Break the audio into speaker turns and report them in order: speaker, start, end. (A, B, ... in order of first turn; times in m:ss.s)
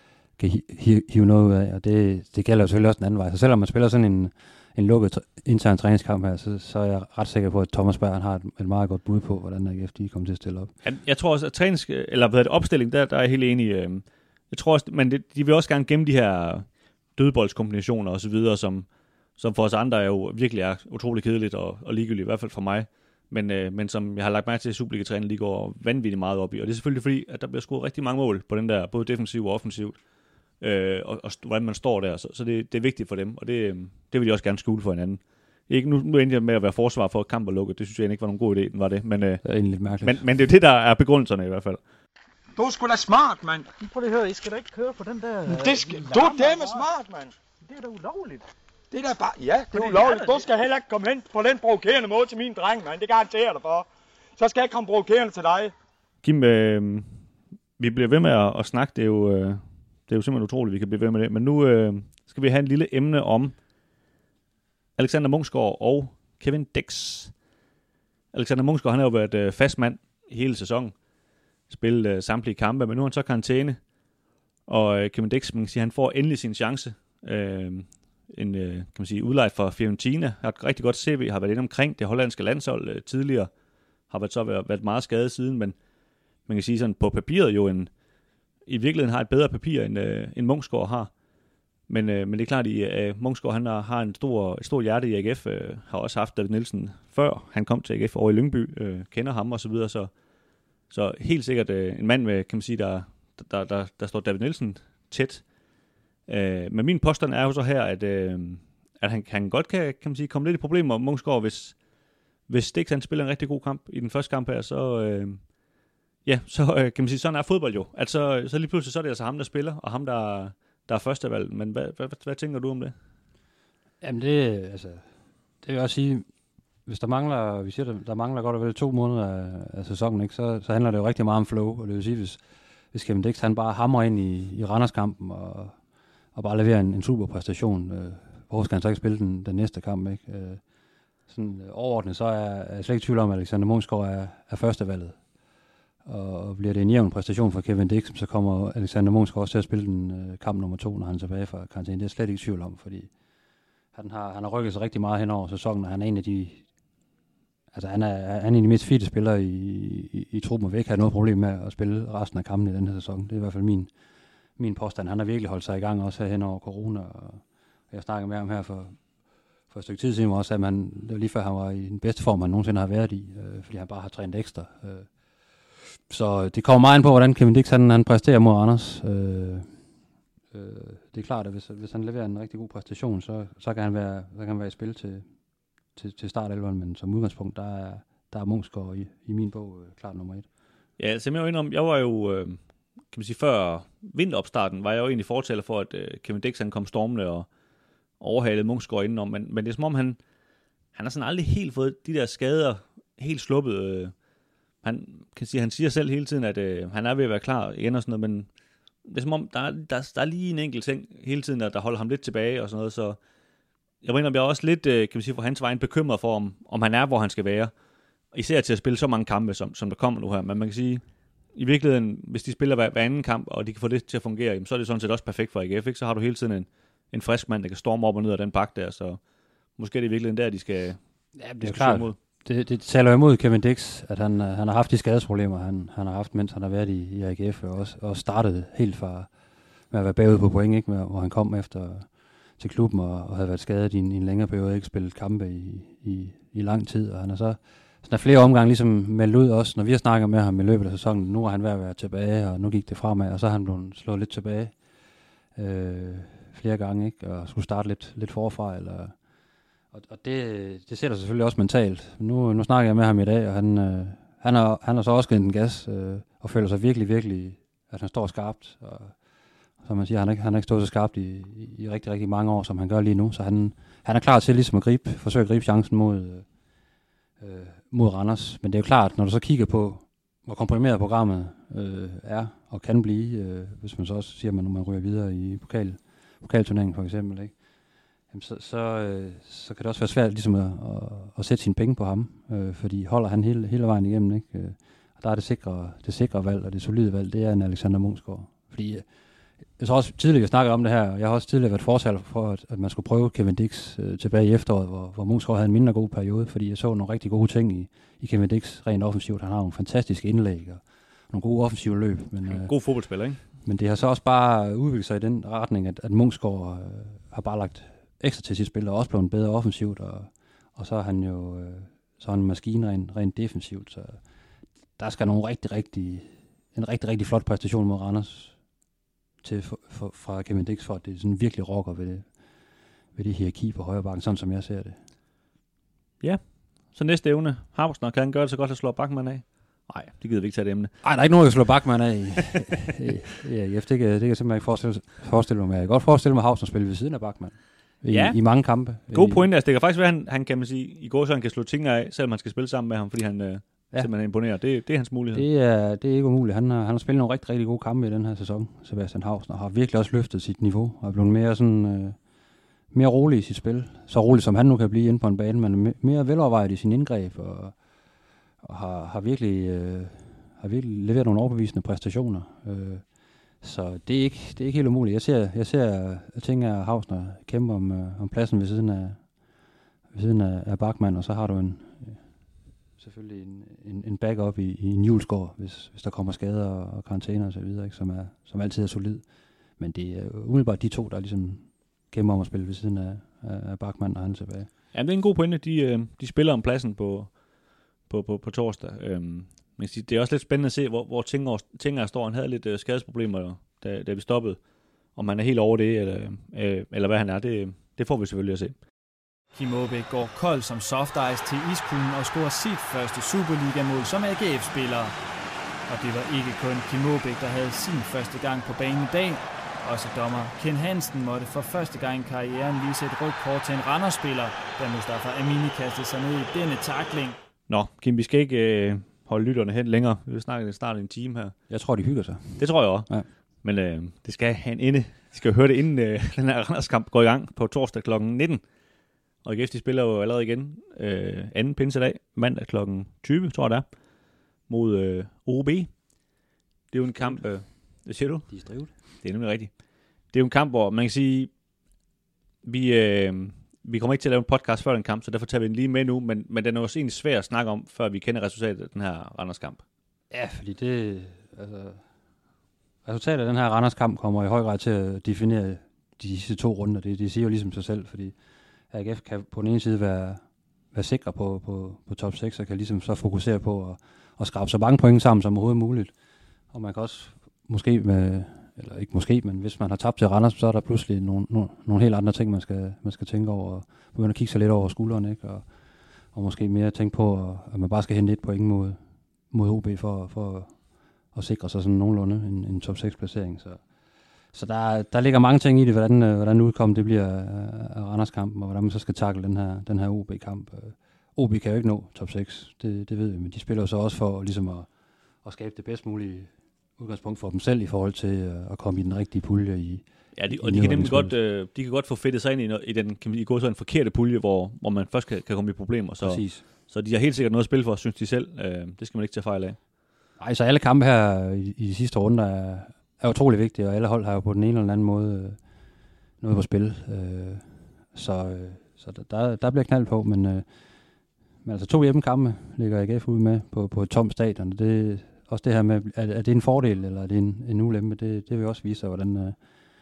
0:00.4-0:10.7 A
0:10.8-0:30.0 B
0:30.6-0:39.4 B
0:39.4-0:40.2 A
0:40.0-0:41.8 B
0:42.6-0:43.7 C
0:43.7-0:46.8 D
0:45.5-0:47.3 C
0:47.7-0:48.4 D
0:48.9-0:55.7 C
0:49.7-0:50.4 D
0:56.2-0:57.1 B
0:57.8-1:03.5 B
1:05.0-1:07.3 B
1:08.3-1:10.9 B
1:11.7-1:13.8 B
1:14.7-1:23.5 B
1:24.1-1:25.8 B
1:26.4-1:27.9 B
1:28.6-1:31.1 B
1:31.9-1:40.1 B
1:40.9-1:45.4 B
1:46.3-1:51.8 B
1:52.5-1:55.5 B
1:56.2-2:02.9 B
2:04.0-2:05.0 A
2:05.6-2:06.2 A
2:06.8-2:12.4 A
2:12.9-2:15.8 A
2:16.3-2:20.6 A
2:21.3-2:25.2 A
2:26.0-2:33.1 A
2:33.9-2:36.6 A
2:37.7-2:43.9 A
2:44.6-2:49.0 A
2:49.7-2:55.1 A
2:56.1-2:59.8 A
3:00.5-3:05.2 A
3:05.9-3:10.5 A
3:11.0-3:12.6 B
3:13.1-3:17.5 B
3:18.2-3:20.2 B
3:20.9-3:24.1 B
3:24.8-3:28.5 B
3:29.0-3:33.2 B
3:34.0-3:37.7 B
3:38.3-3:41.0 B
3:41.5-3:49.2 B
3:49.8-3:51.0 B
3:51.4-3:59.3 A
3:51.6-3:52.2 B
3:59.9-4:14.7 A
4:15.6-4:19.1 A
4:19.9-4:29.1 A
4:29.8-4:36.4 A
4:37.4-4:47.5 A
4:48.3-4:59.0 A
4:59.8-5:12.7 A
5:12.4-5:13.4 B
5:13.6-5:24.2 A
5:25.0-5:28.6 A
5:29.4-5:32.3 A
5:33.1-5:35.0 A
5:36.2-5:40.9 B
5:41.0-5:49.4 A
5:48.1-5:48.4 B
5:49.1-5:55.4 B
5:55.3-6:02.2 A
6:02.9-6:07.8 A
6:08.6-6:13.0 A
6:13.6-6:19.2 A
6:20.1-6:22.2 A
6:23.0-6:29.2 A
6:29.8-6:34.7 A
6:34.9-6:37.3 B
6:38.1-6:44.6 B
6:45.2-6:48.8 B
6:49.5-6:55.1 E
6:55.9-7:07.4 E
7:07.7-7:11.5 B
7:11.7-7:13.3 A
7:12.6-7:13.1 B
7:13.6-7:18.6 B
7:19.4-7:23.9 B
7:24.7-7:25.9 B
7:26.9-7:29.7 B
7:28.5-7:28.9 A
7:30.3-7:31.5 B
7:32.6-7:39.8 B
7:40.3-7:42.0 A
7:43.0-7:48.3 A
7:48.9-7:50.4 A
7:50.9-7:56.1 A
7:56.7-8:05.7 A
8:06.3-8:09.0 A
8:09.5-8:10.8 A
8:11.3-8:13.8 A
8:14.5-8:24.9 A
8:25.4-8:31.4 A
8:30.4-8:39.8 B
8:36.2-8:36.6 A
8:40.4-8:45.6 A
8:46.4-8:50.6 A
8:51.6-8:59.6 A